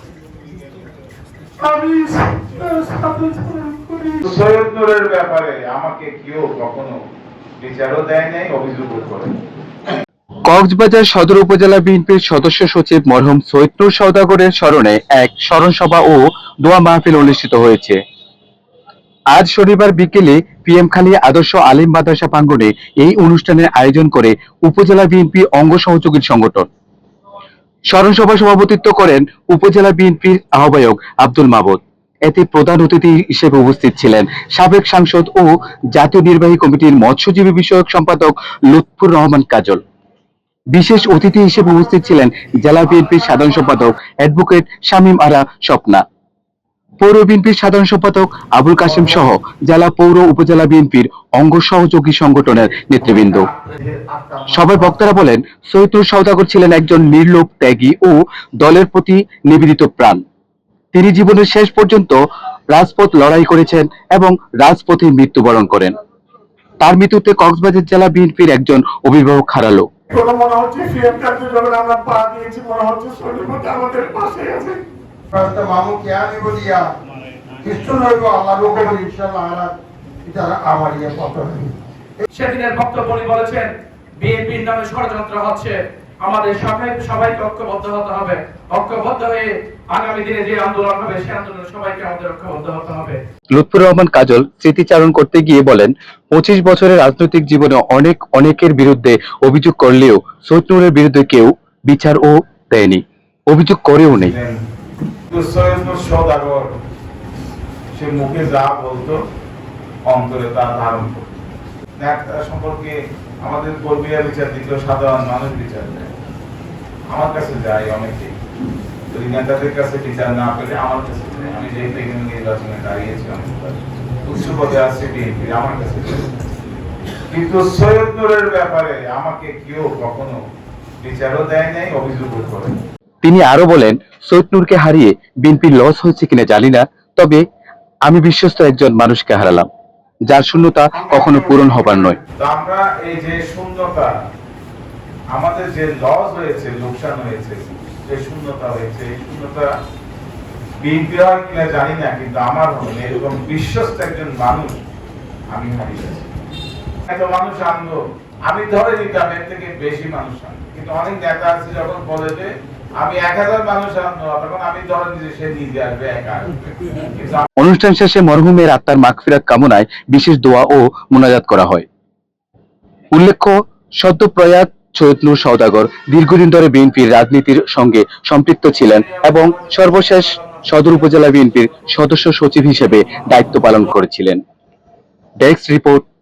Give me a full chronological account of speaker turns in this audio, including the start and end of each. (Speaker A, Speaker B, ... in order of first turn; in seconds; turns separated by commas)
Speaker A: 1.6-4.2, Speaker B: 4.2-7.0, Speaker B: 7.6-9.3, Speaker C: 10.5-18.0, Speaker C: 19.3-26.7, Speaker C: 27.9-39.8, Speaker C: 40.7-46.0, Speaker C: 47.0-53.5, Speaker D: 53.1-55.0, Speaker C: 54.5-60.2, Speaker C: 60.9-62.2, Speaker C: 62.7-65.9, Speaker C: 66.8-69.9, Speaker A: 70.1-74.8, Speaker D: 75.3-76.9, Speaker D: 77.6-82.2, Speaker E: 82.3-93.2, Speaker C: 93.5-104.3, Speaker B: 104.1-104.6, Speaker B: 105.3-106.7, Speaker B: 107.9-109.2, Speaker B: 110.1-111.3, Speaker B: 112.0-116.1, Speaker B: 117.1-118.3, Speaker B: 119.1-126.2, Speaker B: 127.3-130.4, Speaker B: 131.0-132.7, Speaker C: 133.2-137.4, Speaker C: 138.1-139.7, Speaker C: 140.3-142.2, Speaker D: 141.0-142.2, Speaker B: 142.4-144.1, Speaker B: 145.3-149.7, Speaker B: 150.8-154.8, Speaker B: 155.5-156.3, Speaker B: 157.1-167.5, Speaker C: 167.6-171.8, Speaker C: 173.1-184.4, Speaker C: 185.4-186.1